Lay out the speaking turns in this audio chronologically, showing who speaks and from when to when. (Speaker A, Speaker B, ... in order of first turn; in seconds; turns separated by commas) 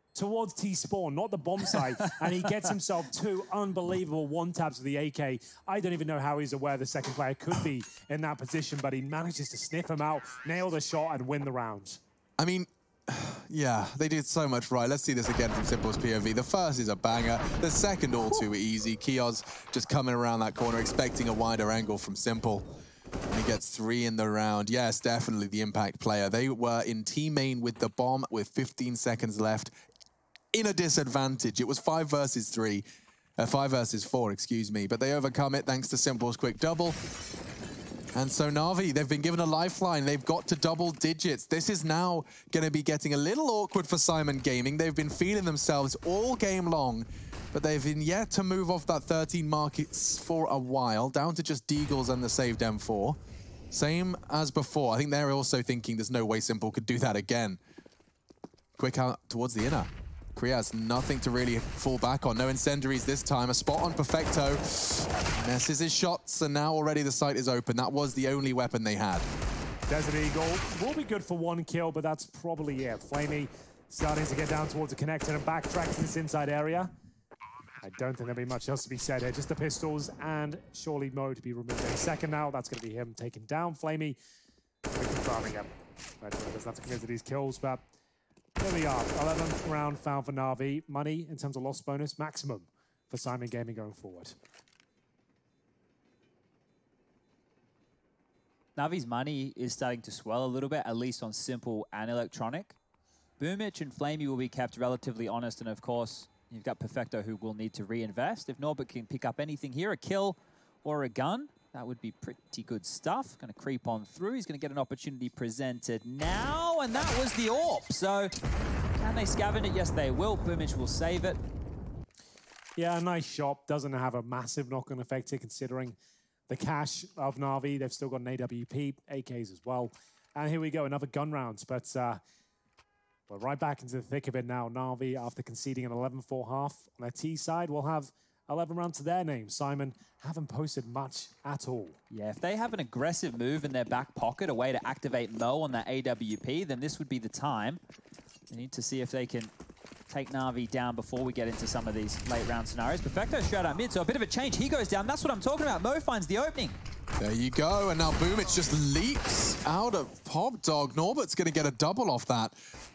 Speaker A: 0.1-12.0, Speaker B: 12.4-22.7, Speaker B: 23.3-29.7, Speaker B: 30.5-32.8, Speaker B: 33.4-37.0, Speaker B: 38.1-53.2, Speaker B: 53.7-57.6, Speaker B: 58.8-69.3, Speaker A: 69.9-76.9, Speaker A: 77.8-84.2, Speaker A: 84.9-85.7, Speaker A: 86.2-87.9, Speaker A: 88.6-94.3, Speaker C: 98.8-102.8, Speaker C: 103.4-118.3, Speaker C: 119.0-121.4, Speaker A: 122.8-126.0, Speaker A: 126.5-132.2, Speaker A: 133.3-142.0, Speaker C: 142.1-147.8, Speaker C: 148.5-149.5, Speaker C: 150.1-156.8, Speaker B: 157.2-162.6